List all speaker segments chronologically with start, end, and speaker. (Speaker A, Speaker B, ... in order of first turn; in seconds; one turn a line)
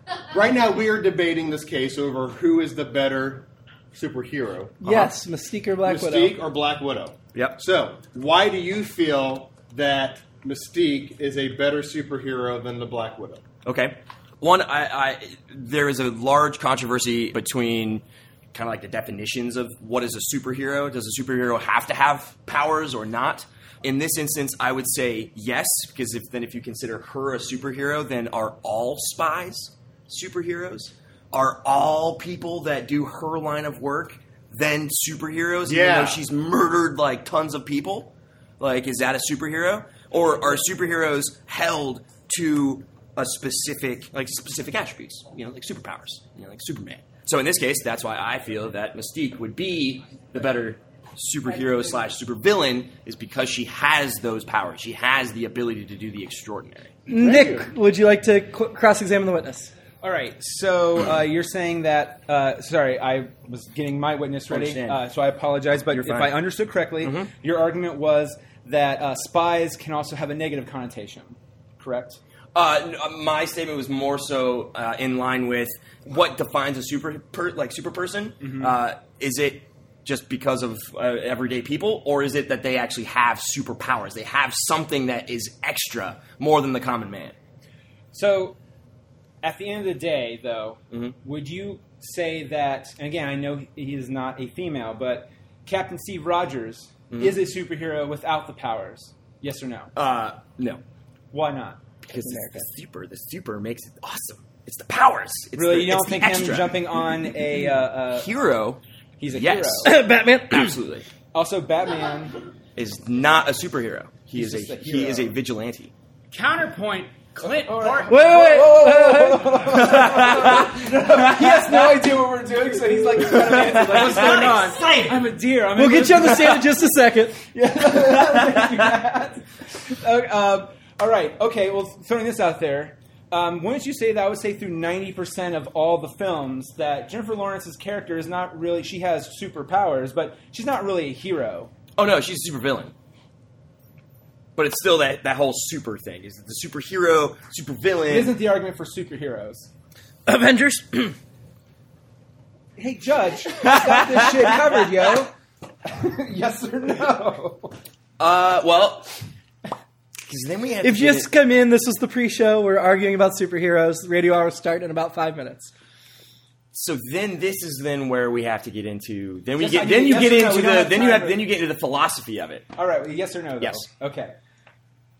Speaker A: 0.3-4.9
Speaker B: 4.8-6.3
Speaker A: 5.8-13.4
Speaker C: 7.3-7.6
Speaker C: 13.6-56.9
Speaker A: 35.6-36.2
Speaker B: 57.1-59.7
Speaker A: 57.1-57.7
Speaker D: 60.0-72.2
Speaker C: 64.5-65.0
Speaker C: 65.9-66.4
Speaker C: 67.0-67.3
Speaker C: 72.5-87.3
Speaker D: 78.4-78.8
Speaker D: 88.1-88.5
Speaker D: 89.4-99.9
Speaker C: 90.9-91.2
Speaker C: 97.1-97.4
Speaker C: 99.9-100.8
Speaker D: 101.3-101.8
Speaker C: 102.0-106.8
Speaker B: 102.1-102.7
Speaker D: 105.5-108.3
Speaker C: 108.1-108.8
Speaker D: 109.2-109.9
Speaker C: 109.3-111.0
Speaker B: 109.8-110.7
Speaker D: 111.3-112.3
Speaker C: 112.8-115.9
Speaker D: 114.3-115.3
Speaker E: 116.3-118.2
Speaker D: 117.4-126.7
Speaker B: 118.1-119.7
Speaker C: 119.6-121.4
Speaker C: 123.7-125.1
Speaker E: 123.9-124.6
Speaker B: 125.7-127.4
Speaker D: 127.5-141.7
Speaker C: 142.0-142.9
Speaker C: 144.6-148.3
Speaker D: 148.1-149.7
Speaker B: 150.3-151.1
Speaker D: 152.8-155.3
Speaker D: 155.8-157.7
Speaker C: 158.2-159.1
Speaker C: 160.2-161.3
Speaker B: 160.8-165.7
Speaker C: 166.7-172.7
Speaker D: 169.6-171.5
Speaker D: 172.7-174.3
Speaker C: 173.6-173.9